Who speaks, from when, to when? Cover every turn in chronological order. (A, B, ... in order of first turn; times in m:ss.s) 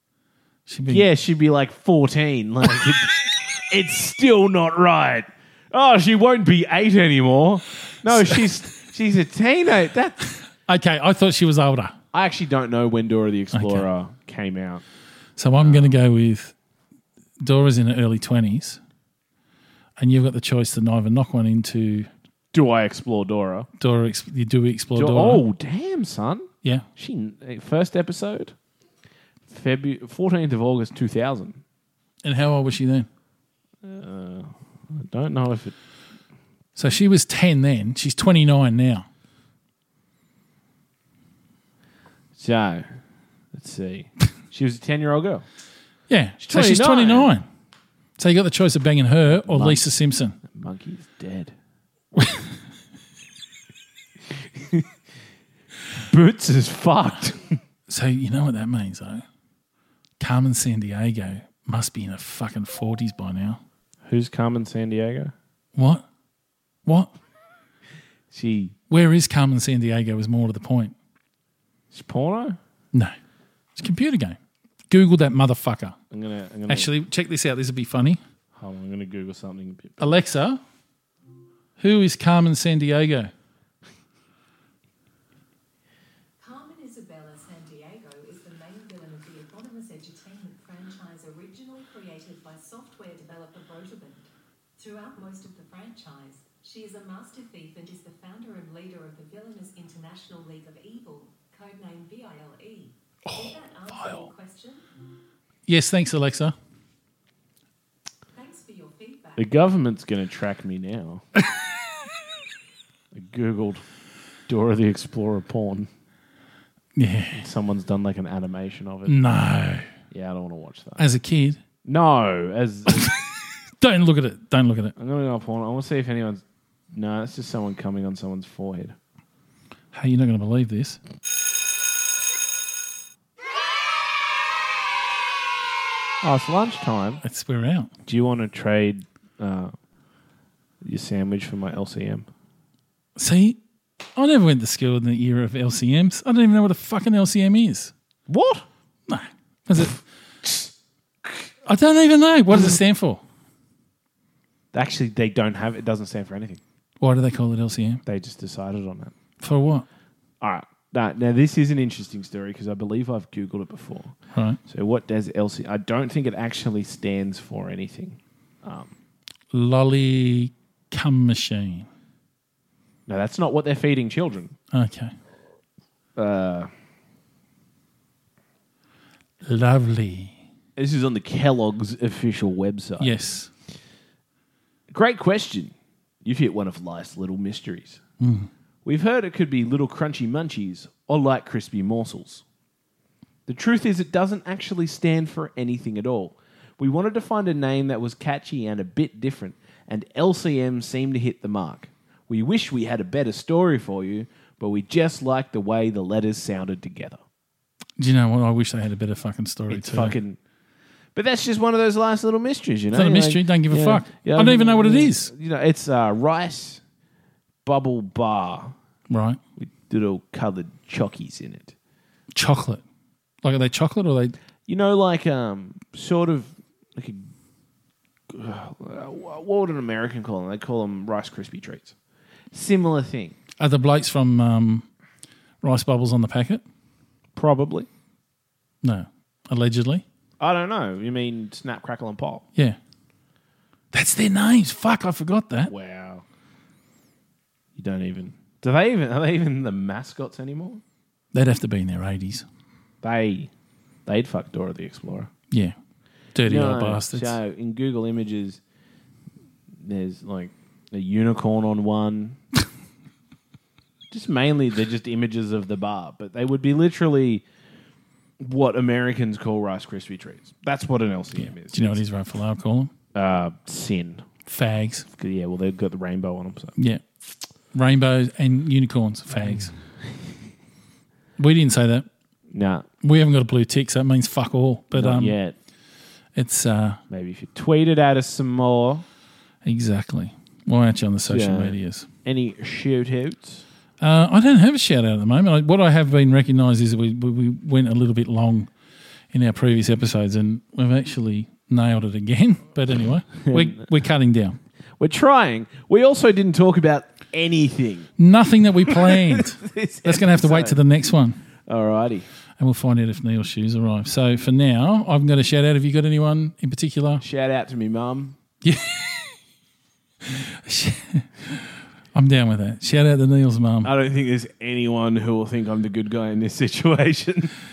0:00.7-0:01.0 A
0:00.9-0:10.3 B
0:08.1-0:08.4 A
0:10.6-0:12.0 A
0:12.1-0:14.8 B
0:13.5-0:13.8 A
0:15.4-0:16.5 A
0:15.6-0:15.9 B
0:17.4-0:18.8 A
0:20.0-0:22.1 A
0:22.5-0:23.7 B
0:23.8-0:25.4 A
0:24.9-0:28.5 B
0:29.5-0:31.6 B
0:32.2-0:33.1 A
0:33.8-0:35.7 B
0:36.8-0:39.0 A
0:42.4-0:43.0 B
0:43.5-0:45.4 B
0:46.1-0:47.4 A
0:46.4-0:47.3 B
0:48.2-0:50.4 A
0:49.3-0:49.9 B
0:50.4-0:51.5 B
0:52.2-0:52.4 A
0:54.4-0:54.8 B
0:56.0-0:57.6 B
0:57.9-0:59.2 A
1:00.2-1:03.6 A
1:04.1-1:05.3 B
1:05.8-1:06.0 A
1:06.8-1:07.1 A
1:08.3-1:08.7 B
1:08.9-1:10.9 A
1:11.9-1:12.6 B
1:13.8-1:14.4 A
1:14.9-1:16.0 A
1:16.1-1:16.9 B
1:16.7-1:18.2 A
1:18.5-1:20.2 B
1:20.0-1:20.6 A
1:21.8-1:23.3 A
1:26.4-1:44.8 C
1:43.2-1:44.3 A
1:45.7-1:46.6 A
1:48.3-1:49.6 C
1:49.4-1:51.2 B
1:53.1-1:53.8 B
1:54.5-1:55.9 B
1:56.9-1:57.4 A
1:57.3-1:59.2 B
1:59.0-1:59.9 A
2:00.1-2:01.0 B
2:01.0-2:01.6 A
2:01.8-2:03.1 B
2:02.9-2:04.9 A
2:05.0-2:09.0 B
2:09.9-2:11.0 A
2:16.2-2:17.2 B
2:17.2-2:17.9 A
2:18.1-2:19.7 B
2:20.8-2:22.3 B
2:23.2-2:23.6 A
2:24.1-2:27.9 A
2:28.3-2:28.6 B
2:29.1-2:30.0 A
2:31.6-2:33.2 A
2:34.7-2:36.6 B
2:37.0-2:38.0 A
2:38.0-2:39.1 B
2:39.4-2:39.8 A
2:40.4-2:44.2 B
2:44.3-2:44.6 A
2:44.7-2:48.9 B
2:49.5-2:51.9 A
2:53.1-2:54.5 B
2:54.7-2:55.1 A
2:56.2-2:56.7 B
2:59.4-3:00.4 A
3:00.8-3:03.2 B
3:03.0-3:03.5 A
3:04.9-3:08.0 B
3:08.2-3:08.5 A
3:08.8-3:12.4 B
3:13.5-3:27.2 B
3:28.0-3:30.2 A
3:29.7-3:30.4 B
3:31.1-3:36.8 B
3:32.9-3:35.3 A
3:37.6-3:38.7 B
3:39.1-3:39.4 A
3:39.6-3:41.7 B
3:42.4-3:42.8 A
3:43.4-3:44.3 A
3:44.7-3:47.3 B
3:48.3-3:51.9 B
3:52.5-3:53.4 B
3:53.6-3:54.8 A
3:55.6-3:56.6 A
3:57.4-3:57.9 B
3:58.8-4:00.0 A
4:00.4-4:02.4 B
4:03.9-4:05.7 A
4:05.7-4:06.2 B
4:07.7-4:10.8 B
4:11.3-4:12.4 A
4:13.0-4:13.5 B
4:14.0-4:15.3 B
4:15.5-4:15.8 A
4:16.3-4:17.4 A
4:16.4-4:18.6 B
4:19.8-4:22.4 B
4:24.1-4:27.4 B
4:28.4-4:32.0 B
4:31.7-4:32.9 A
4:33.1-4:34.3 B
4:34.4-4:35.1 A
4:35.1-4:36.7 B
4:36.8-4:37.0 A
4:37.7-4:39.7 A
4:41.4-4:42.1 A
4:42.5-4:42.8 B
4:43.0-4:45.4 A
4:44.9-4:45.6 B
4:46.4-4:47.0 A
4:47.1-4:49.0 B
4:49.6-4:52.1 A
4:51.3-4:53.6 B
4:54.0-4:58.7 A
4:59.3-5:04.6 A
5:03.4-5:03.9 B
5:05.0-5:08.1 B
5:08.2-5:11.4 A
5:08.8-5:10.8 B
5:11.7-5:12.3 B
5:12.6-5:17.2 A
5:17.2-5:18.4 B
5:18.6-5:19.4 A
5:20.2-5:23.9 A
5:23.8-5:27.5 B